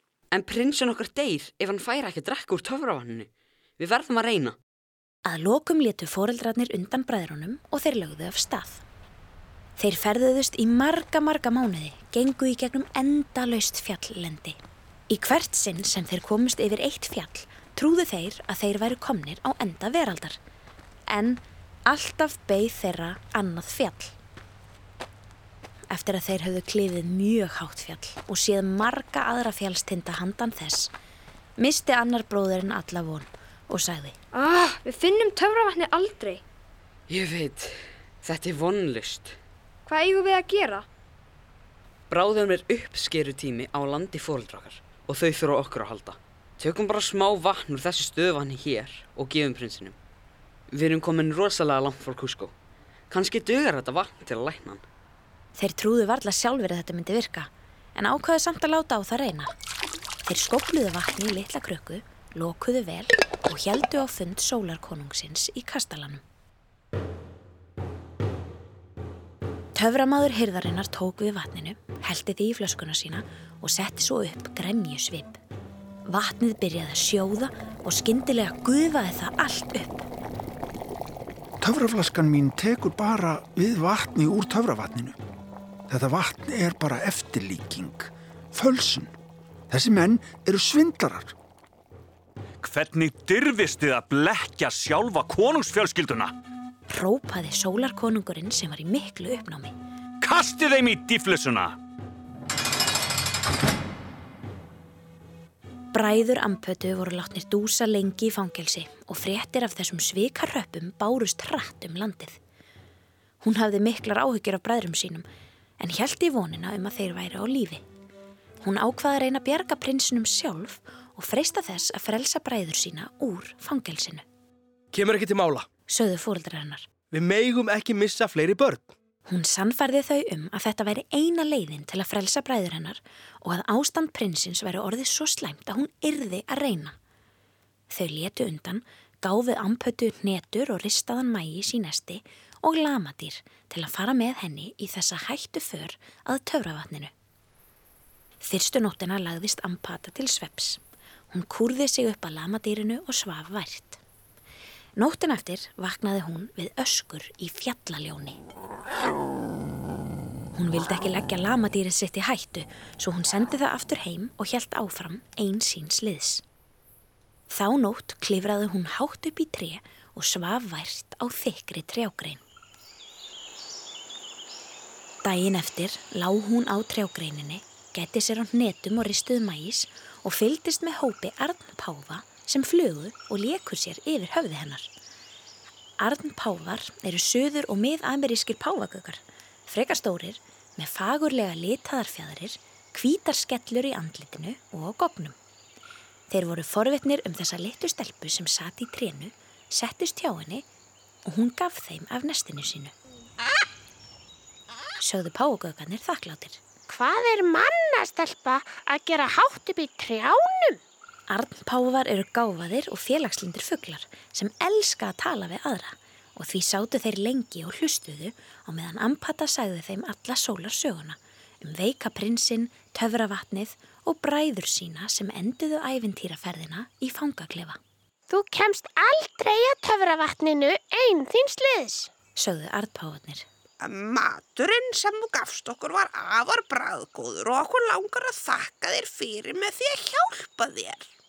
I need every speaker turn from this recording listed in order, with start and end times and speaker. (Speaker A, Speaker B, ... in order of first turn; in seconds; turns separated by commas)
Speaker A: 0.3-4.5, Speaker B: 5.2-8.8, Speaker B: 9.8-14.6, Speaker B: 15.1-20.4, Speaker B: 21.1-24.1, Speaker B: 25.9-30.9, Speaker B: 31.6-34.1, Speaker C: 34.3-36.4, Speaker A: 37.1-39.4, Speaker C: 39.9-40.9, Speaker A: 42.1-50.0, Speaker A: 50.7-52.5, Speaker A: 53.1-54.8, Speaker B: 55.5-59.5, Speaker B: 60.2-66.2, Speaker B: 69.7-75.4, Speaker B: 76.0-80.1, Speaker D: 81.6-85.2, Speaker D: 85.9-89.1, Speaker D: 89.7-91.3, Speaker E: 92.6-96.3, Speaker B: 96.9-99.7, Speaker E: 100.2-101.8, Speaker B: 105.9-112.4, Speaker B: 113.4-115.2, Speaker B: 115.8-117.8, Speaker B: 118.6-124.2, Speaker F: 124.9-125.7, Speaker B: 125.9-126.9, Speaker F: 127.1-128.9, Speaker B: 129.3-137.0, Speaker B: 137.9-147.1, Speaker B: 148.4-150.8, Speaker B: 151.3-154.0, Speaker B: 155.0-158.4, Speaker B: 160.5-166.4, Speaker B: 167.5-172.4, Speaker B: 175.2-184.9, Speaker B: 186.0-195.3, Speaker B: 196.3-200.6, Speaker B: 201.2-202.9, Speaker B: 205.0-206.6, Speaker G: 206.9-210.8, Speaker B: 211.3-227.8, Speaker G: 228.3-232.1, Speaker B: 232.3-233.4, Speaker H: 233.8-241.1